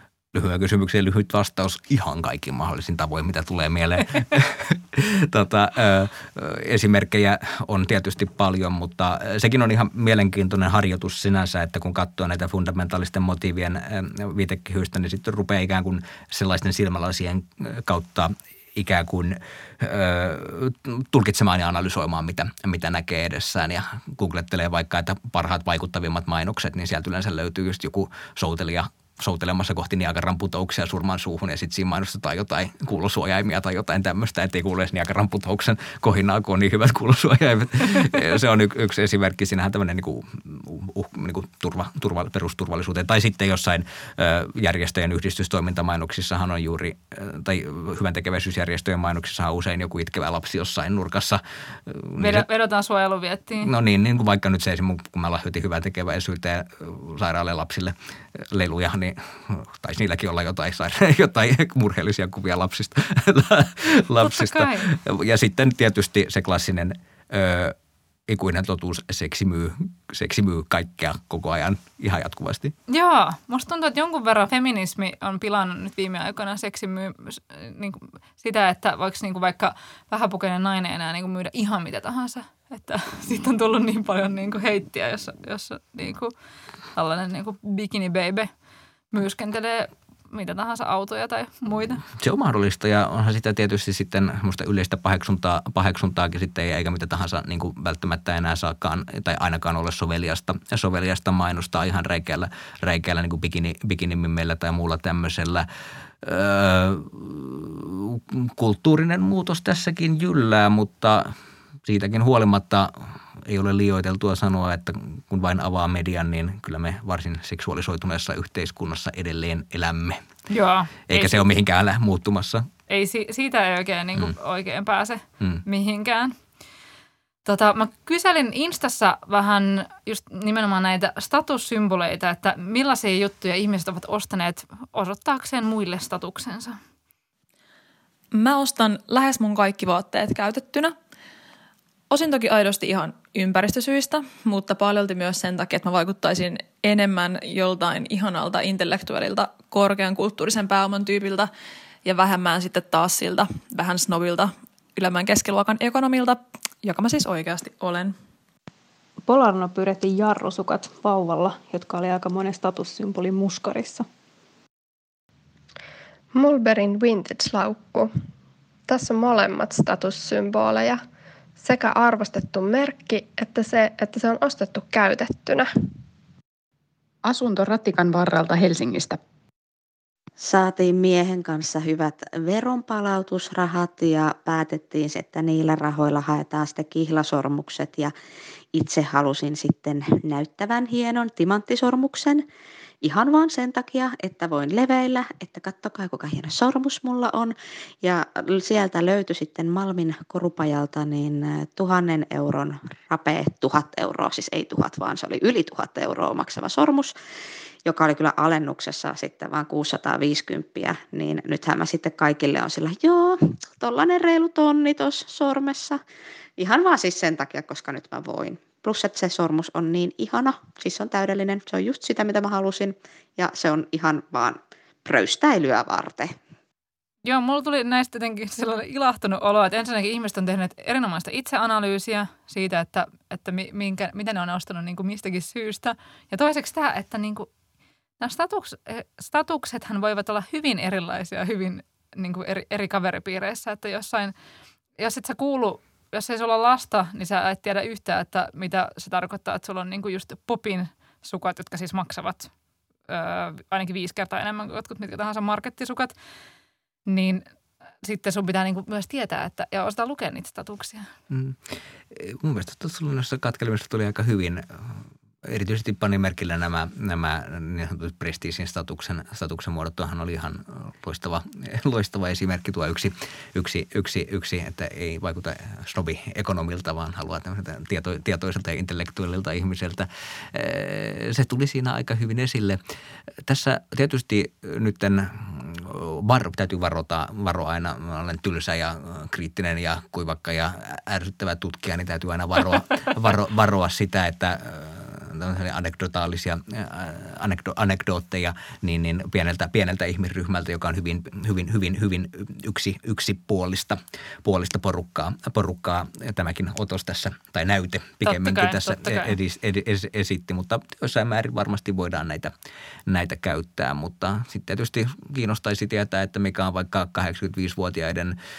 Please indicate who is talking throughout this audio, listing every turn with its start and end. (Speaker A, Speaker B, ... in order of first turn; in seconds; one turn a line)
Speaker A: 0.3-52.5
Speaker B: 52.2-53.7
Speaker A: 53.6-67.7
Speaker B: 64.2-64.9
Speaker A: 68.3-72.7
Speaker B: 72.9-86.3
Speaker B: 86.9-88.5
Speaker B: 89.1-92.0
Speaker A: 92.2-105.7
Speaker A: 106.2-111.3
Speaker A: 111.8-120.2
Speaker B: 120.5-121.4
Speaker A: 121.1-122.7
Speaker B: 122.9-126.3
Speaker B: 127.4-136.8
Speaker C: 138.3-140.9
Speaker C: 142.1-151.5
Speaker C: 152.0-158.1
Speaker D: 159.2-164.1
Speaker E: 166.3-168.1
Speaker E: 168.9-171.0
Speaker E: 171.6-175.7
Speaker F: 177.2-179.2
Speaker G: 180.4-188.1
Speaker G: 188.7-192.4
Speaker G: 193.0-207.1
Speaker G: 207.8-216.0
Speaker G: 216.6-226.3
Speaker B: 227.2-237.5
Speaker B: 238.2-244.3
Speaker B: 245.0-252.5
Speaker B: 253.1-256.1
Speaker B: 257.1-257.4
Speaker B: 258.0-261.1
Speaker A: 261.3-261.6
Speaker A: 262.1-282.8
Speaker A: 283.4-312.5
Speaker B: 308.2-309.3
Speaker A: 313.1-318.4